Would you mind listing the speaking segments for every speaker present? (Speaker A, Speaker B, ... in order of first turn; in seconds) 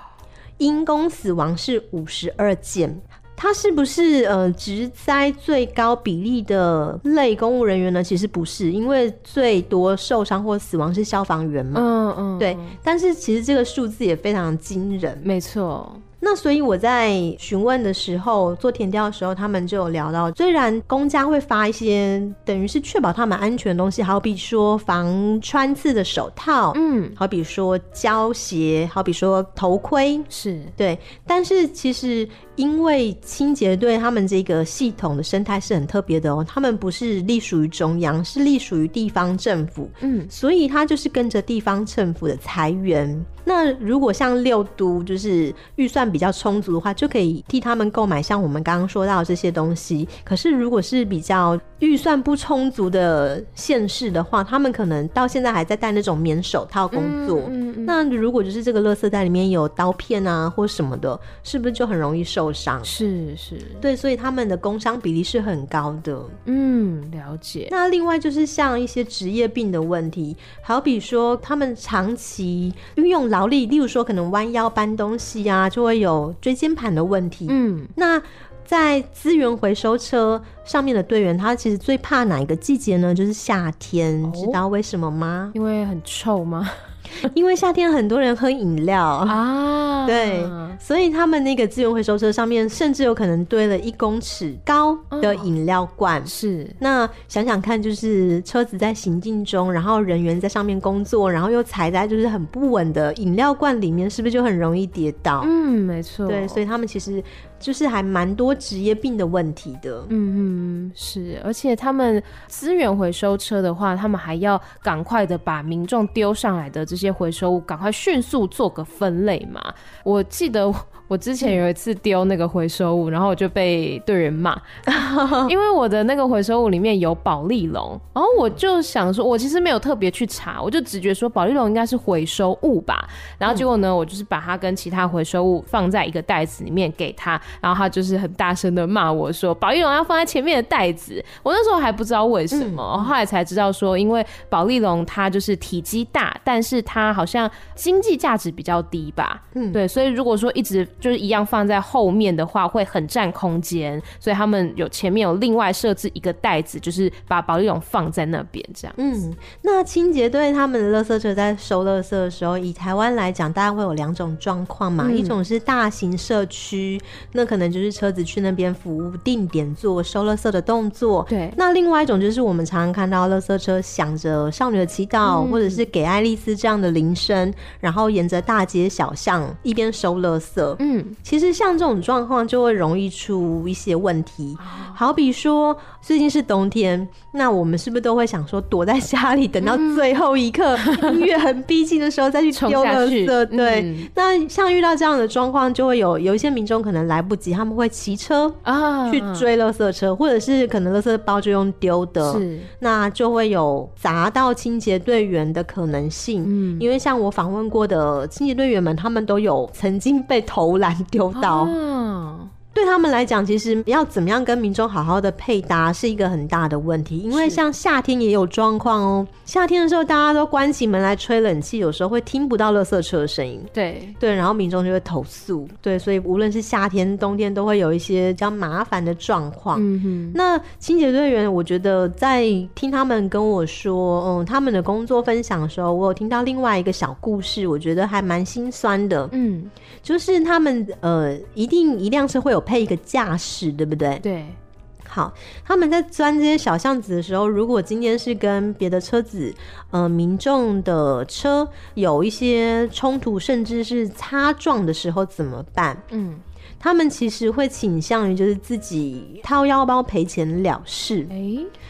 Speaker A: 0.6-15.2, 16.2-62.9, 63.8-66.3, 67.7-85.5, 87.2-89.4, 90.0-105.5, 106.2-110.1, 124.9-125.5, 142.5-143.1, 149.5-149.8, 159.0-211.7, 212.7-239.3, 240.0-244.2, 245.1-256.0, 256.8-261.3
Speaker B: 11.7-12.8, 15.2-16.0, 26.7-27.2, 30.3-30.7, 40.0-40.3, 56.9-58.0, 62.9-63.8, 66.4-67.7, 77.5-77.9, 84.2-84.6, 85.5-86.7, 89.3-90.8, 95.1-95.5, 96.3-96.8, 105.4-106.6, 110.1-124.6, 125.3-159.0, 165.0-165.4, 171.3-171.6, 175.2-175.8, 180.8-181.2, 184.6-185.0, 189.6-190.0, 190.8-191.2, 192.5-194.1, 198.6-199.5, 202.2-202.7, 206.4-206.9, 211.3-212.5, 217.3-217.6, 223.7-224.2, 229.7-230.4, 239.3-239.7, 244.2-244.6, 256.1-256.4, 261.3-261.7